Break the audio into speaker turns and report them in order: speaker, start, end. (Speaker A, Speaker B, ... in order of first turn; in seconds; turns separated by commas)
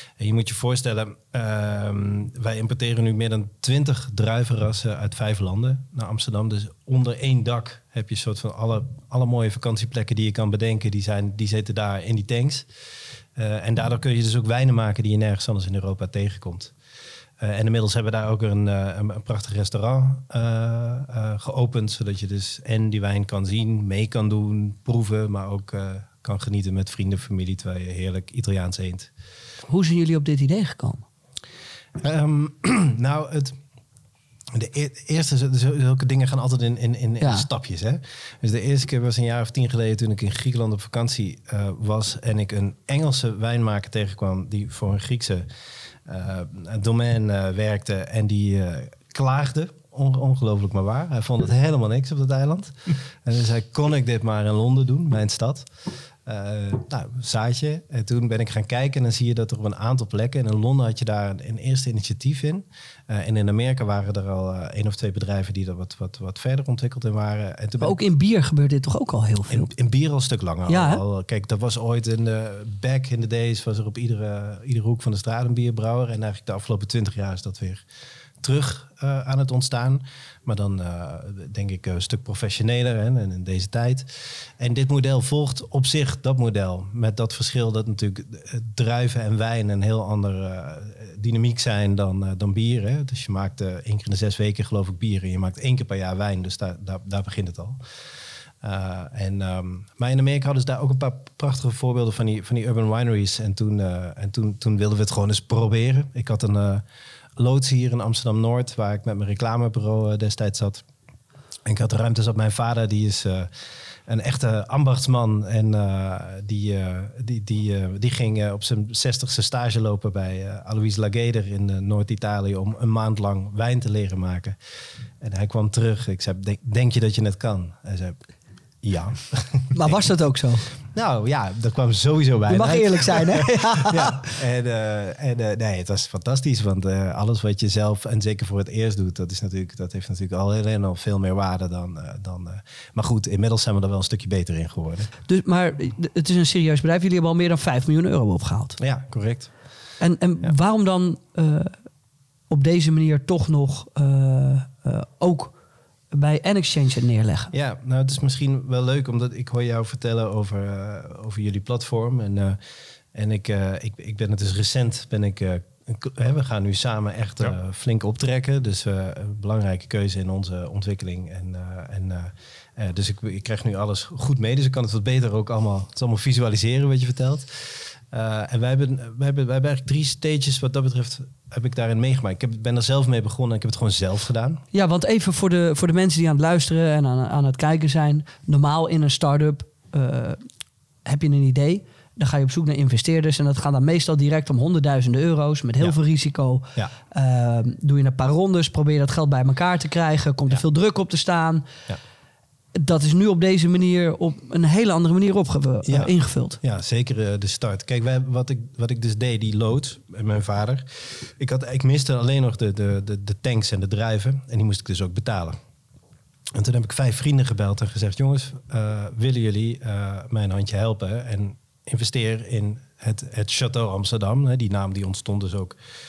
Speaker A: 0.2-12.7, Speaker A: 13.4-16.7, Speaker A: 17.4-29.1, Speaker B: 29.7-31.1, Speaker A: 32.0-33.6, Speaker A: 34.5-45.5, Speaker B: 37.2-37.5, Speaker A: 46.1-55.7, Speaker A: 56.2-68.0, Speaker B: 67.8-69.7, Speaker A: 69.5-77.8, Speaker B: 70.7-71.0, Speaker A: 78.4-97.8, Speaker A: 98.6-106.8, Speaker A: 107.4-110.8, Speaker A: 111.7-113.5, Speaker A: 114.1-124.6, Speaker A: 125.2-128.2, Speaker A: 128.8-130.1, Speaker B: 129.7-130.7, Speaker A: 130.9-145.1, Speaker B: 132.5-134.2, Speaker B: 145.3-148.8, Speaker A: 148.8-149.5, Speaker B: 150.0-151.7, Speaker B: 152.5-155.5, Speaker B: 156.1-157.5, Speaker A: 157.5-162.6, Speaker A: 163.1-184.6, Speaker B: 184.7-190.4, Speaker B: 191.1-201.7, Speaker B: 202.8-206.6, Speaker A: 205.9-215.6, Speaker A: 216.5-225.8